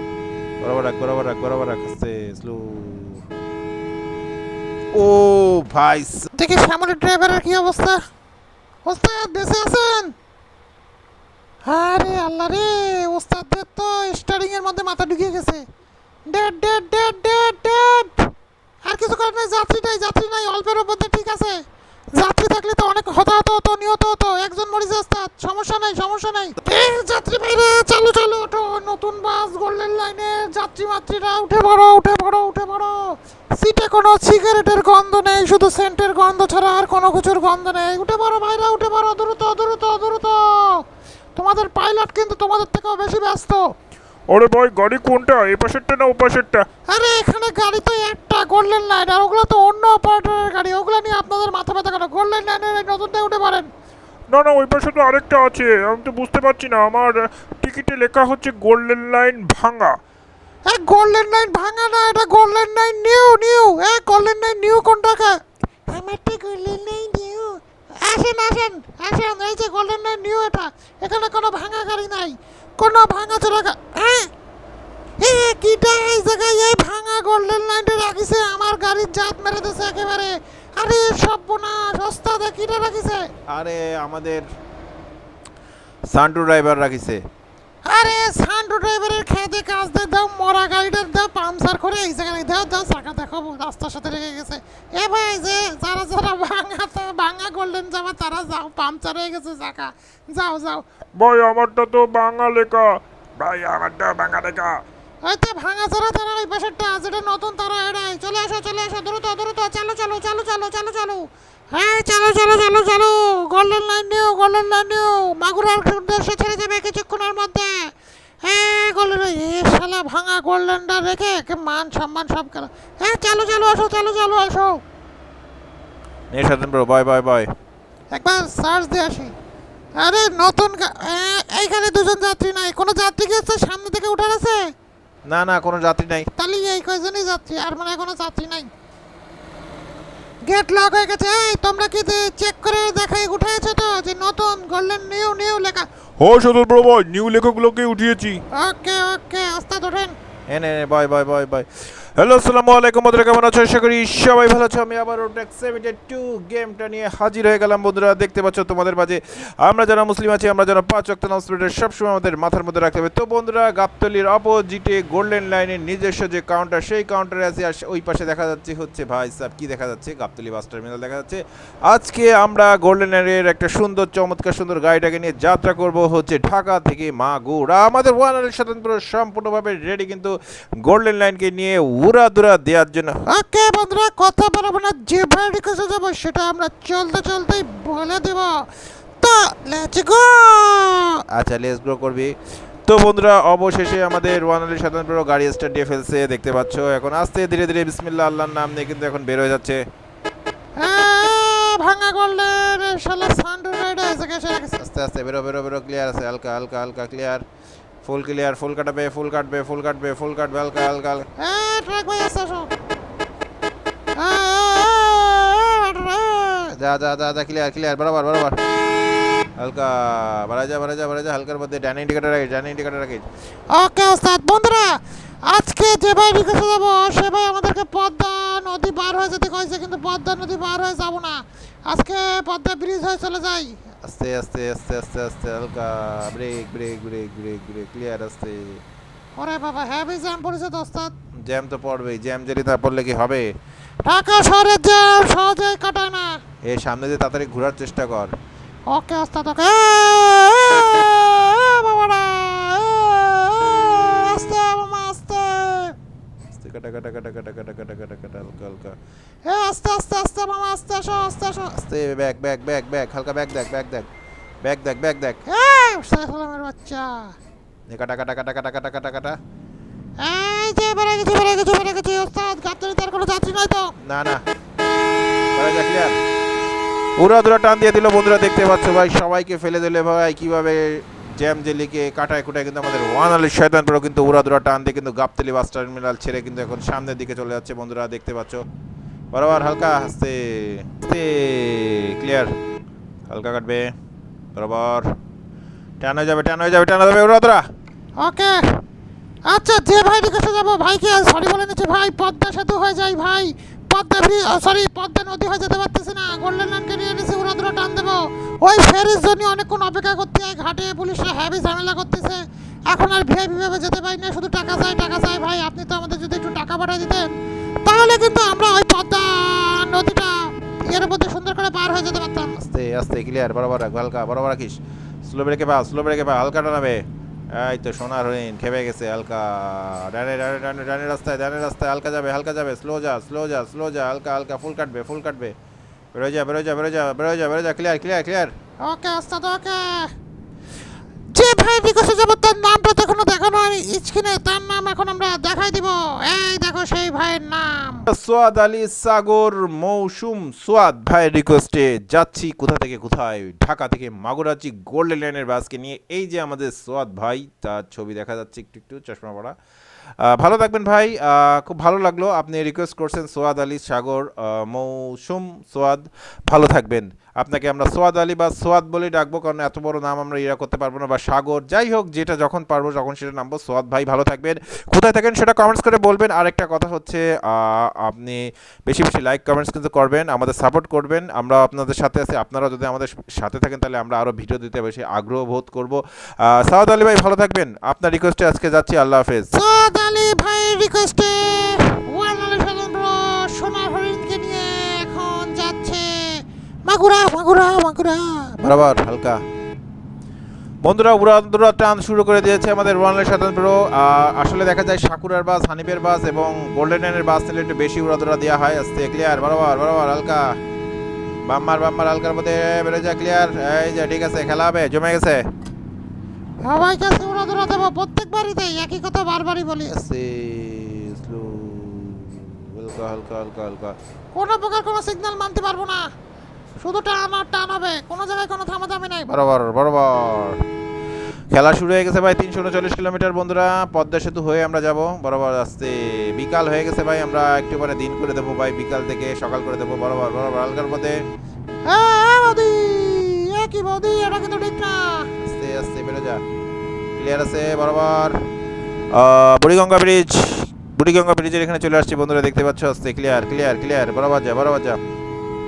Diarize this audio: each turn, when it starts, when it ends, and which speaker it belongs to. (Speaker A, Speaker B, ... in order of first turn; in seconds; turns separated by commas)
Speaker A: 0.6-3.2, Speaker A: 4.9-6.3, Speaker B: 6.3-8.0, Speaker B: 8.8-10.1, Speaker B: 11.7-15.6, Speaker B: 16.3-18.3, Speaker B: 18.8-21.6, Speaker B: 22.1-40.8, Speaker B: 41.4-43.7, Speaker C: 44.3-46.6, Speaker B: 46.9-53.7, Speaker C: 54.3-60.0, Speaker B: 60.6-74.3, Speaker B: 75.2-83.3, Speaker A: 83.5-84.4, Speaker A: 86.1-87.2, Speaker B: 87.8-100.8, Speaker C: 101.2-104.8, Speaker B: 105.2-124.8, Speaker A: 126.3-127.5, Speaker B: 128.1-129.3, Speaker B: 130.0-134.7, Speaker A: 135.3-136.3, Speaker B: 136.3-138.7, Speaker B: 140.5-145.9, Speaker C: 146.2-148.4, Speaker B: 148.5-150.1, Speaker A: 150.5-183.2, Speaker B: 183.3-188.7, Speaker B: 189.2-191.2, Speaker A: 191.3-192.3, Speaker A: 192.9-199.8, Speaker B: 200.8-204.8, Speaker A: 204.8-207.4, Speaker A: 208.0-211.3, Speaker B: 211.4-212.7, Speaker B: 214.2-216.7, Speaker A: 216.8-218.6, Speaker A: 219.6-223.2, Speaker B: 223.7-233.8, Speaker A: 234.0-238.8, Speaker B: 239.4-241.1, Speaker A: 241.4-243.5, Speaker B: 244.0-246.4, Speaker A: 246.6-248.3, Speaker B: 248.9-256.0, Speaker A: 256.5-258.9, Speaker B: 259.4-261.7, Speaker A: 261.7-264.1, Speaker A: 264.6-265.4, Speaker B: 265.5-267.4, Speaker A: 267.9-269.4, Speaker B: 270.2-273.9, Speaker A: 274.0-274.4, Speaker A: 275.5-276.2, Speaker A: 277.2-288.6, Speaker A: 289.3-292.5, Speaker A: 293.3-293.9, Speaker A: 294.5-295.1, Speaker A: 296.0-297.6, Speaker B: 298.2-298.8, Speaker B: 299.5-317.3, Speaker B: 317.8-322.5, Speaker A: 322.6-335.5, Speaker A: 336.1-338.5, Speaker B: 338.9-340.1, Speaker B: 341.3-348.0, Speaker A: 348.1-359.5, Speaker A: 360.2-389.5, Speaker B: 389.5-398.6, Speaker A: 398.6-399.4, Speaker A: 400.8-410.6, Speaker A: 411.5-415.4, Speaker B: 416.6-419.9, Speaker A: 419.9-423.9, Speaker B: 424.3-426.1, Speaker B: 426.8-429.3, Speaker A: 429.3-430.6, Speaker A: 431.5-441.2, Speaker B: 441.8-445.3, Speaker A: 445.4-446.4, Speaker A: 447.1-448.4, Speaker A: 449.1-455.0